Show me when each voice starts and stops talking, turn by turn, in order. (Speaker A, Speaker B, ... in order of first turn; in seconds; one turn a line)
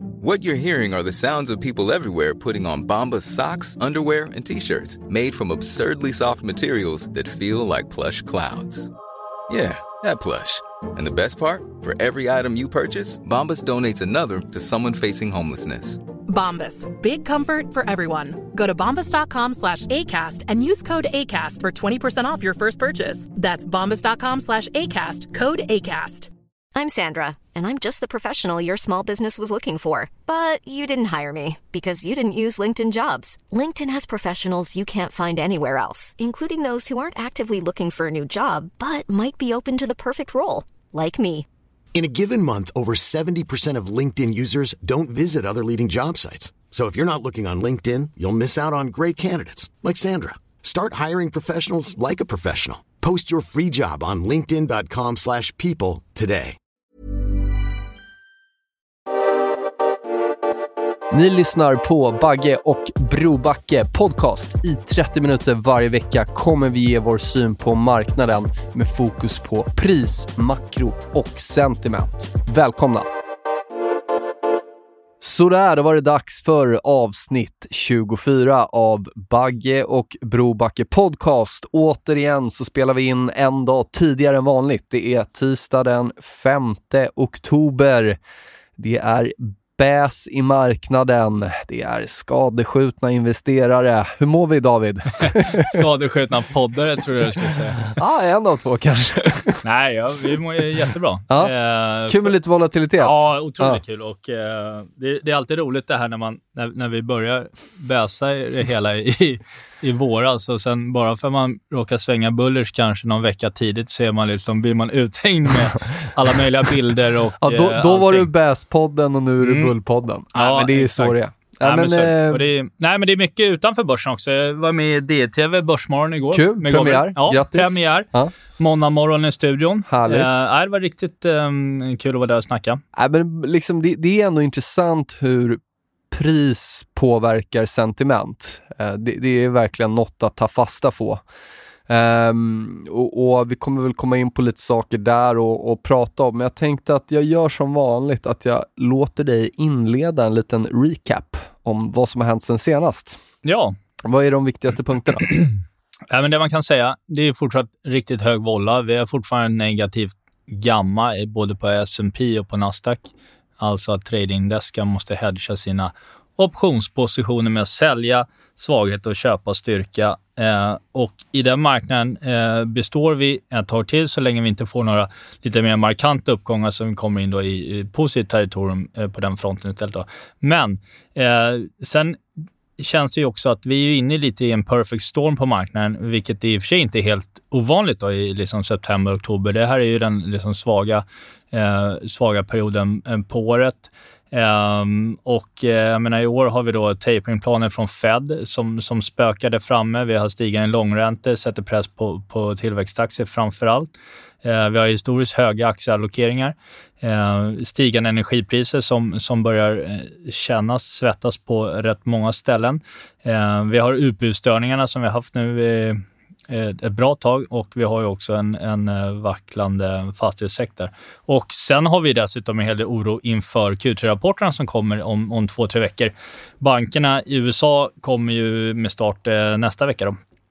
Speaker A: 0.2-8.9
Speaker A: 9.5-16.0
Speaker B: 16.3-26.3
Speaker C: 26.7-41.5
Speaker D: 41.9-56.6
Speaker E: 61.1-73.1
Speaker E: 75.2-88.2
Speaker E: 88.8-95.8
Speaker F: 95.2-97.9
Speaker E: 97.9-99.6
Speaker F: 99.6-102.3
Speaker E: 102.1-103.8
Speaker F: 103.0-118.3
Speaker E: 117.4-122.5
Speaker F: 119.4-119.7
Speaker F: 120.3-132.8
Speaker E: 126.3-128.3
Speaker E: 129.9-130.4
Speaker E: 132.9-135.6
Speaker E: 136.1-141.2
Speaker E: 141.9-153.2
Speaker F: 153.4-153.7
Speaker E: 154.0-155.3
Speaker F: 155.3-155.5
Speaker F: 156.1-182.2
Speaker F: 182.8-203.9
Speaker F: 204.4-230.2